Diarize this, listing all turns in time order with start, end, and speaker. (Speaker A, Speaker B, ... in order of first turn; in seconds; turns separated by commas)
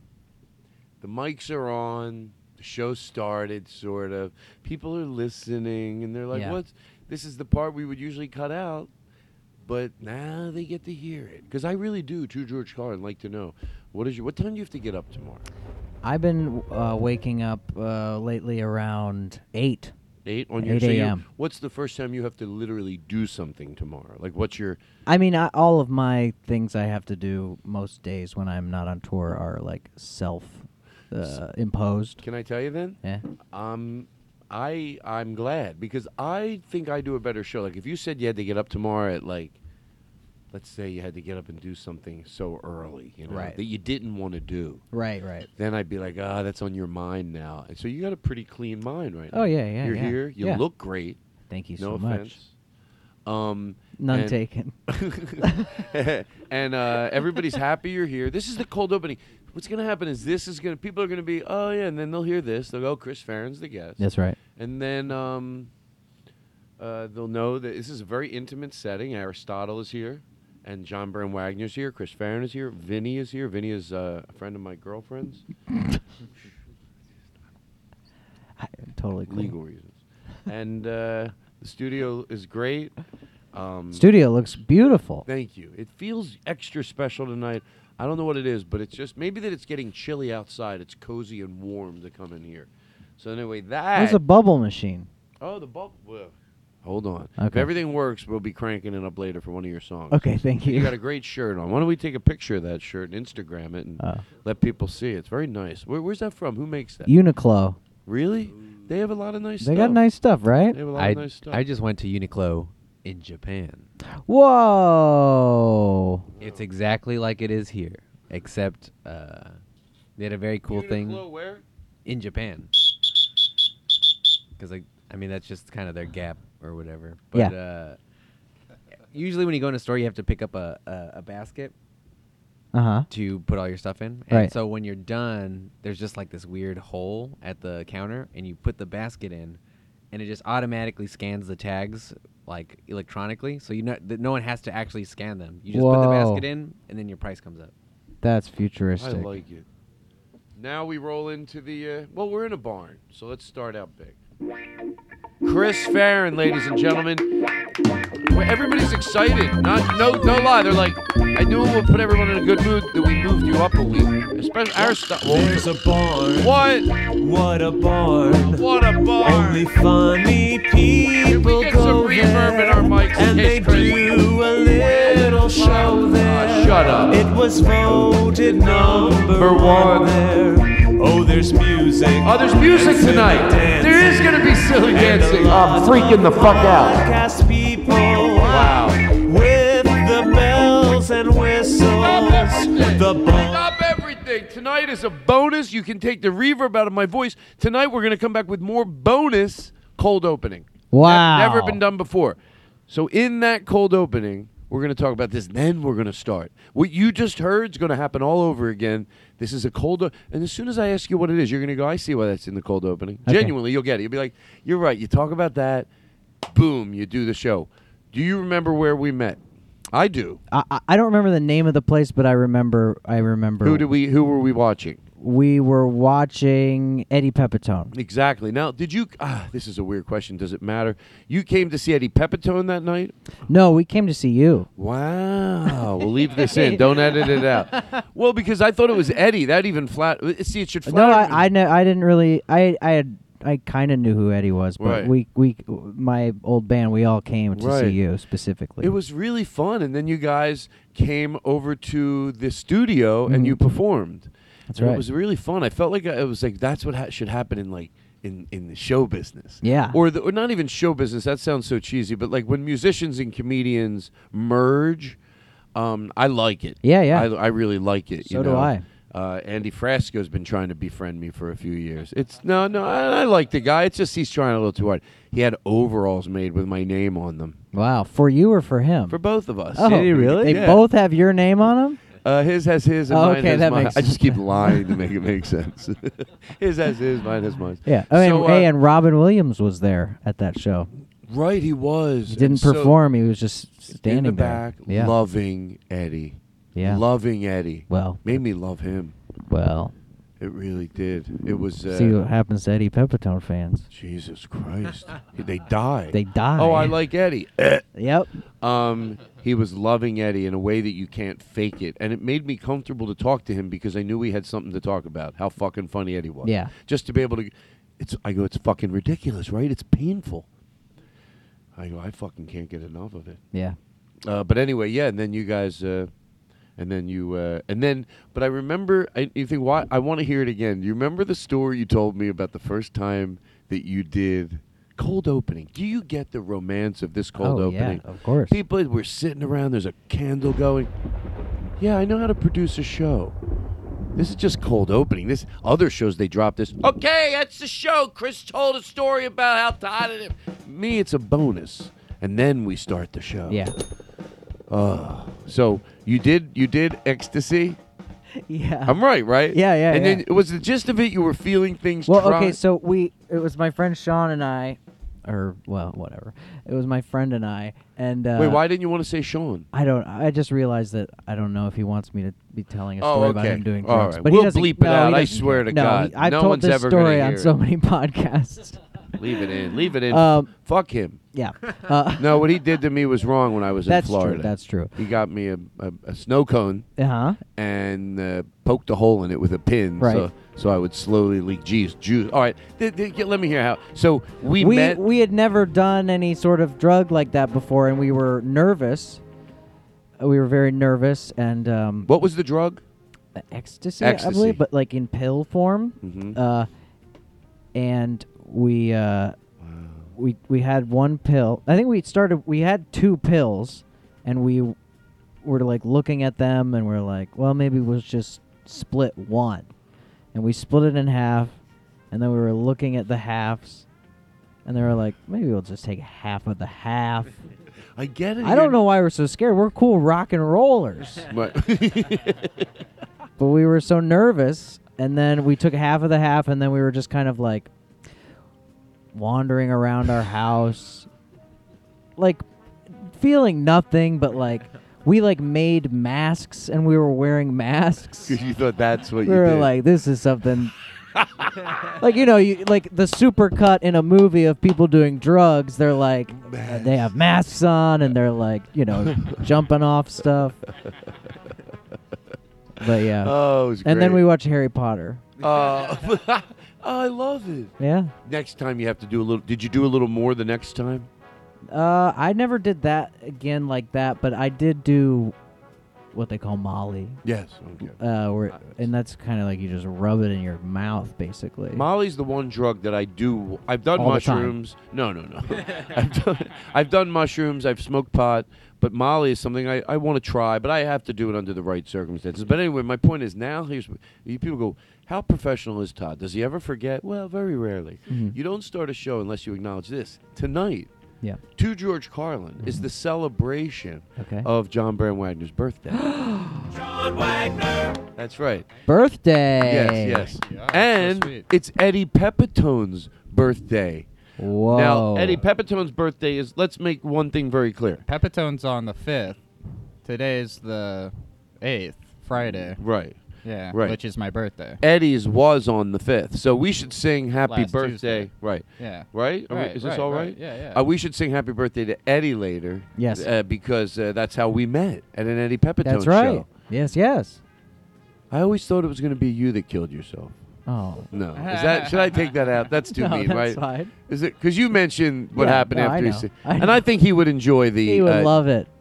Speaker A: 1.0-8.9, Speaker B: 6.3-6.6, Speaker A: 9.6-15.4, Speaker B: 16.0-19.9, Speaker A: 20.2-24.8, Speaker B: 20.6-21.2, Speaker B: 25.1-32.2, Speaker A: 32.2-33.0, Speaker A: 33.5-39.6, Speaker A: 40.5-44.8, Speaker B: 43.3-43.6, Speaker B: 44.9-45.5, Speaker A: 45.5-51.2, Speaker B: 49.3-50.6, Speaker B: 51.5-52.4, Speaker A: 51.8-52.5, Speaker A: 53.2-64.0, Speaker B: 54.0-54.8, Speaker B: 55.4-55.7, Speaker B: 64.0-64.4, Speaker A: 64.6-65.7, Speaker A: 66.8-75.4, Speaker B: 78.6-79.5, Speaker A: 79.3-82.9, Speaker A: 83.5-84.1, Speaker B: 83.9-85.2, Speaker A: 85.2-94.2, Speaker B: 93.9-95.1, Speaker A: 95.4-107.1, Speaker B: 97.4-97.7, Speaker B: 100.1-100.9, Speaker B: 104.0-104.2, Speaker B: 107.0-107.8, Speaker A: 108.0-110.0, Speaker B: 109.6-110.8, Speaker A: 110.7-111.6, Speaker C: 111.0-113.9, Speaker B: 114.3-116.2, Speaker A: 116.4-116.6, Speaker C: 116.4-119.6, Speaker C: 120.2-121.2, Speaker A: 120.7-121.6, Speaker C: 122.0-122.8, Speaker C: 124.6-128.0, Speaker C: 129.1-131.7, Speaker B: 132.7-133.1, Speaker C: 133.1-139.6, Speaker C: 140.1-147.7, Speaker B: 145.7-146.4, Speaker B: 148.2-149.3, Speaker A: 149.0-149.7, Speaker A: 150.6-154.2, Speaker A: 155.4-157.4, Speaker A: 158.3-165.7, Speaker D: 164.8-168.7, Speaker A: 166.4-166.9, Speaker A: 168.3-169.7, Speaker D: 169.2-193.7, Speaker A: 171.2-174.2, Speaker A: 174.8-180.3, Speaker A: 182.2-187.1, Speaker A: 188.3-189.1, Speaker A: 191.9-215.9, Speaker B: 200.9-201.8, Speaker B: 213.2-213.5, Speaker A: 216.5-219.4, Speaker A: 219.9-220.4, Speaker B: 220.5-223.8, Speaker A: 223.6-225.0, Speaker B: 225.2-227.9, Speaker A: 227.9-233.1, Speaker B: 233.5-234.7, Speaker A: 234.8-241.5, Speaker B: 236.3-237.2, Speaker B: 240.8-248.9, Speaker A: 244.8-245.1, Speaker A: 247.5-248.0, Speaker A: 248.8-265.2, Speaker B: 253.3-253.6, Speaker B: 254.7-255.0, Speaker B: 259.6-260.0, Speaker A: 265.8-277.6, Speaker B: 266.8-267.3, Speaker B: 268.2-268.8, Speaker B: 277.7-279.2, Speaker A: 279.1-280.8, Speaker B: 279.7-282.0, Speaker C: 279.8-280.7, Speaker A: 282.2-288.7, Speaker B: 283.1-284.8, Speaker B: 287.9-290.9, Speaker A: 291.3-293.0, Speaker B: 292.3-295.1, Speaker A: 293.9-299.2, Speaker B: 296.8-297.0, Speaker B: 297.9-298.3, Speaker B: 299.5-299.9, Speaker A: 300.4-302.2, Speaker B: 301.9-303.9, Speaker A: 303.9-307.8, Speaker B: 306.1-307.0, Speaker B: 307.9-308.3, Speaker A: 308.6-320.5, Speaker B: 316.4-316.7, Speaker A: 321.8-323.4, Speaker A: 324.2-326.1, Speaker A: 326.8-340.9, Speaker B: 337.4-338.6, Speaker A: 341.8-343.4, Speaker A: 344.2-353.6, Speaker B: 353.5-353.8, Speaker A: 354.7-357.8, Speaker B: 358.5-359.0, Speaker A: 358.9-362.6, Speaker B: 359.5-360.2, Speaker B: 362.1-368.6, Speaker A: 368.4-369.7, Speaker B: 369.7-378.8, Speaker A: 373.0-377.5, Speaker A: 379.2-381.2, Speaker B: 380.1-380.5, Speaker B: 381.3-382.5, Speaker A: 382.2-386.9, Speaker B: 383.9-384.9, Speaker B: 387.0-387.4, Speaker A: 387.6-395.0, Speaker B: 390.0-390.3, Speaker B: 394.6-399.2, Speaker B: 400.2-402.1, Speaker A: 402.1-402.8, Speaker B: 403.4-406.7, Speaker A: 404.0-404.6, Speaker A: 406.0-406.4, Speaker B: 407.8-409.4, Speaker A: 409.6-410.1, Speaker B: 410.2-414.8, Speaker B: 415.4-419.7, Speaker B: 420.3-421.6, Speaker B: 422.1-423.9, Speaker B: 424.7-427.4, Speaker A: 428.0-428.8, Speaker B: 428.4-431.2, Speaker A: 431.3-432.7, Speaker B: 433.4-437.7, Speaker B: 439.1-441.1, Speaker B: 442.2-448.4, Speaker A: 448.2-449.7, Speaker B: 449.2-450.8, Speaker A: 451.1-451.6, Speaker B: 452.0-460.6, Speaker A: 456.4-457.1, Speaker B: 462.8-465.2, Speaker A: 463.1-464.2, Speaker A: 465.4-467.7, Speaker B: 467.8-468.1, Speaker A: 468.2-471.1, Speaker B: 471.7-475.3, Speaker B: 476.1-477.2, Speaker A: 477.2-478.0, Speaker B: 477.9-481.9, Speaker A: 481.7-500.9, Speaker B: 484.0-484.5, Speaker B: 498.1-498.4, Speaker A: 501.5-506.0, Speaker B: 504.2-504.5, Speaker B: 506.1-506.5, Speaker D: 506.7-508.0, Speaker A: 508.2-508.7, Speaker B: 508.9-510.3, Speaker A: 509.6-514.1, Speaker E: 510.4-511.4, Speaker B: 514.4-515.4, Speaker A: 514.7-518.0, Speaker E: 518.0-519.4, Speaker E: 520.0-522.8, Speaker A: 522.4-523.2, Speaker E: 523.5-524.8, Speaker A: 523.7-524.0, Speaker A: 524.8-536.5, Speaker E: 527.5-530.8, Speaker B: 533.0-533.3, Speaker B: 535.8-537.4, Speaker A: 538.3-540.3, Speaker B: 540.7-541.1, Speaker A: 541.1-548.4, Speaker E: 541.4-542.2, Speaker B: 542.9-543.9, Speaker B: 545.3-546.8, Speaker B: 547.8-548.7